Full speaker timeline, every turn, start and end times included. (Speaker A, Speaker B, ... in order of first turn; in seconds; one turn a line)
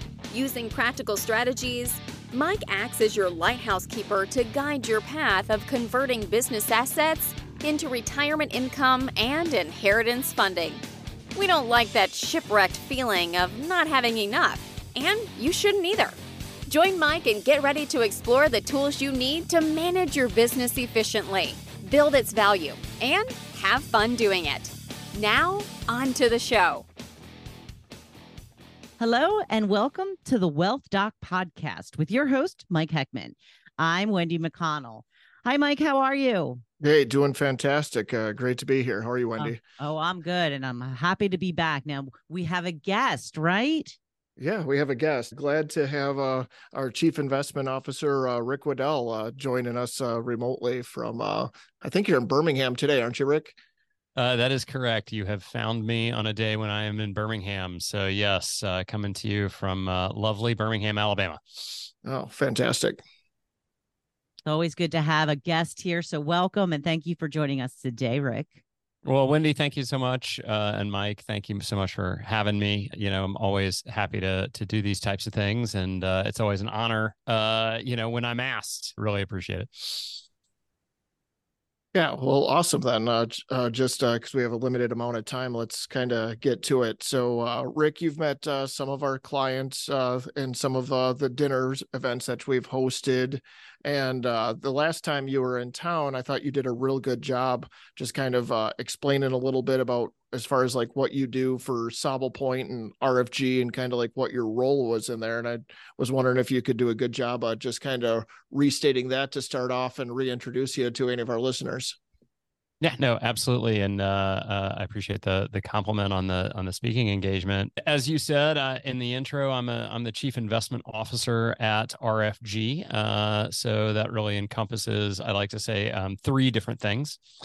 Speaker A: 0.3-10.8
Speaker A: 11.3-16.1
Speaker A: 16.7-26.9
Speaker B: 29.0-36.6
Speaker C: 36.8-39.6
Speaker B: 39.4-44.0
Speaker C: 44.4-53.5
Speaker D: 54.1-61.9
Speaker C: 62.0-63.0
Speaker B: 64.5-68.6
Speaker D: 69.0-80.2
Speaker C: 81.9-112.0
Speaker D: 112.8-127.2